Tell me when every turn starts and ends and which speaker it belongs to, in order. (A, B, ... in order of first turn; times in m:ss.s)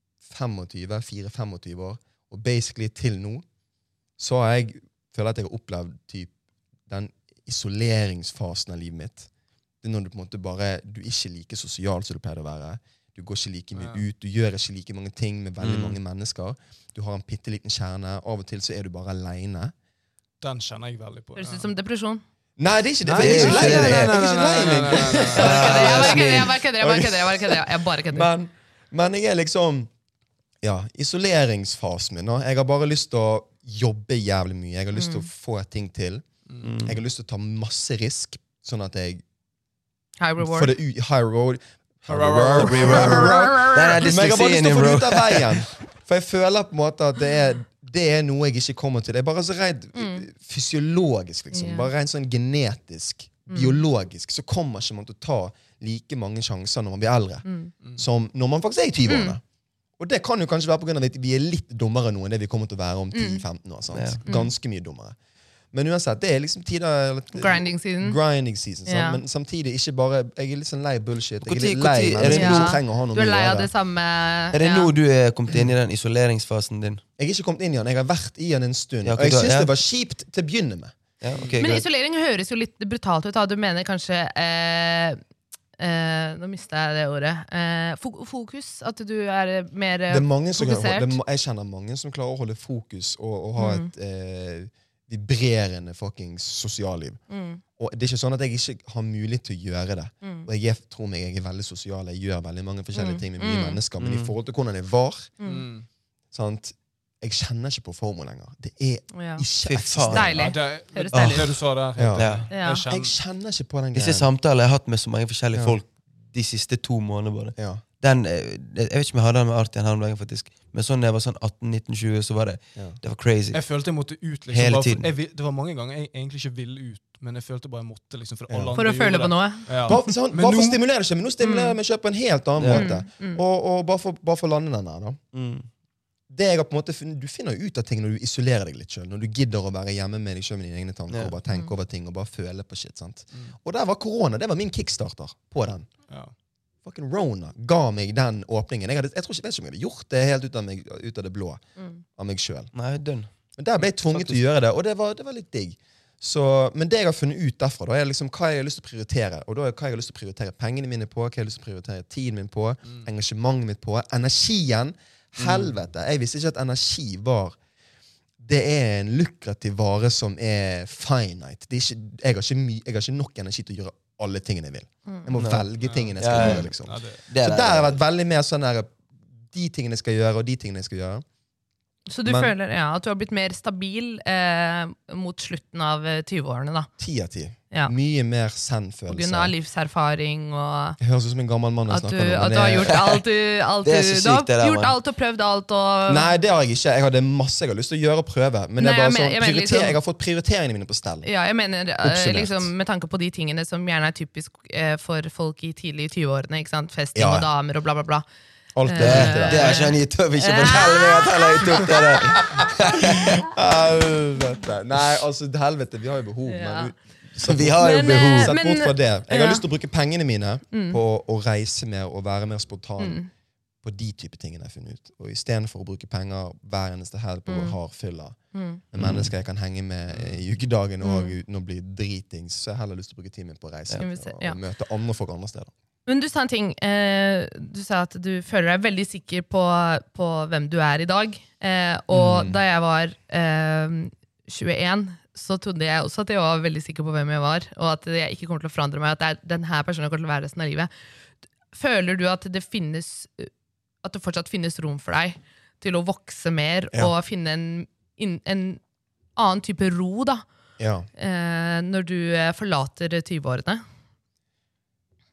0:00.2-0:03.4 A
0:04.2-0:06.3 A
0:06.9-0:09.3 A
0:09.8-0:19.7 A
0:13.8-0:14.1 B
0:15.6-0:16.0 C
0:20.4-0:21.7 B
0:21.4-0:22.2 D
0:22.6-0:29.9 A
0:23.1-0:26.1 B
0:23.1-0:24.7 C
0:25.2-0:28.3 D
0:25.3-0:26.6 C
0:30.6-0:36.3 A
0:34.9-0:35.3 D
0:36.6-0:37.0 C
0:36.8-0:39.2 A
0:40.2-0:40.7 D
0:40.4-0:57.4 A
0:42.1-0:43.6 B
0:42.6-0:45.7 C
0:50.0-0:50.2 D
0:51.5-0:51.9 D
0:53.5-0:53.8 D
0:57.4-0:57.7 D
0:58.0-0:59.4 A
0:59.1-0:59.4 D
1:00.0-1:05.2 A
1:03.1-1:03.4 D
1:03.9-1:04.2 C
1:04.3-1:04.5 D
1:05.7-1:13.7 A
1:07.3-1:08.2 D
1:08.9-1:09.2 D
1:11.4-1:12.8 C
1:12.2-1:14.9 D
1:14.5-1:17.0 C
1:17.2-1:21.0 A
1:19.0-1:19.7 C
1:21.2-1:21.8 C
1:21.6-1:25.2 D
1:25.8-1:31.2 D
1:30.1-1:37.2 A
1:33.6-1:33.9 D
1:37.3-1:37.6 D
1:37.8-1:45.3 A
1:40.2-1:40.5 D
1:43.0-1:43.8 D
1:44.0-1:44.3 C
1:45.4-1:45.7 D
1:45.4-1:45.9 B
1:46.3-1:50.5 A
1:49.1-1:49.4 D
1:49.7-1:50.4 C
1:50.1-1:51.6 D
1:50.4-1:53.1 B
1:51.1-1:51.5 C
1:52.0-1:54.3 A
1:52.2-1:52.5 C
1:52.5-1:52.9 D
1:53.9-2:03.6 C
1:57.6-1:57.8 A
2:03.5-2:10.8 B
2:04.5-2:05.1 C
2:08.5-2:08.8 A
2:08.8-2:10.1 D
2:09.8-2:15.2 A
2:11.4-2:11.8 D
2:12.6-2:12.9 C
2:12.7-2:13.4 D
2:15.3-2:15.7 C
2:16.3-2:25.9 A
2:26.8-2:31.6 A
2:32.2-2:32.7 A
2:32.7-2:33.3 C
2:33.6-2:47.6 A
2:34.1-2:34.4 C
2:45.4-2:45.7 C
2:48.4-2:59.0 A
2:55.4-2:55.7 C
2:55.8-2:57.2 B
2:56.2-2:56.7 C
2:57.3-2:58.0 C
2:59.5-3:01.2 A
3:02.1-3:06.9 D
3:02.3-3:02.5 A
3:07.0-3:09.5 A
3:09.1-3:11.0 D
3:11.0-3:13.0 A
3:11.9-3:16.3 D
3:12.8-3:13.2 C
3:13.8-3:15.0 C
3:16.1-3:21.3 A
3:18.8-3:20.0 D
3:21.2-3:28.2 D
3:22.0-3:22.7 A
3:27.1-3:27.5 A
3:28.7-3:29.9 A
3:28.8-3:32.2 D
3:29.0-3:33.4 C
3:31.6-3:43.2 A
3:36.5-3:36.9 D
3:37.4-3:38.5 C
3:37.8-3:39.6 D
3:40.7-3:41.0 D
3:43.0-3:43.3 D
3:43.8-3:48.4 A
3:47.5-3:47.8 D
3:48.5-3:48.8 D
3:48.9-3:55.7 A
3:49.0-3:49.3 C
3:50.1-3:50.4 B
3:51.0-3:51.4 D
3:54.0-3:54.6 D
3:56.1-4:10.9 D
4:02.1-4:02.6 A
4:11.7-4:13.5 D
4:14.0-4:18.8 D
4:19.4-4:20.4 D
4:20.8-4:21.1 A
4:21.2-4:23.8 D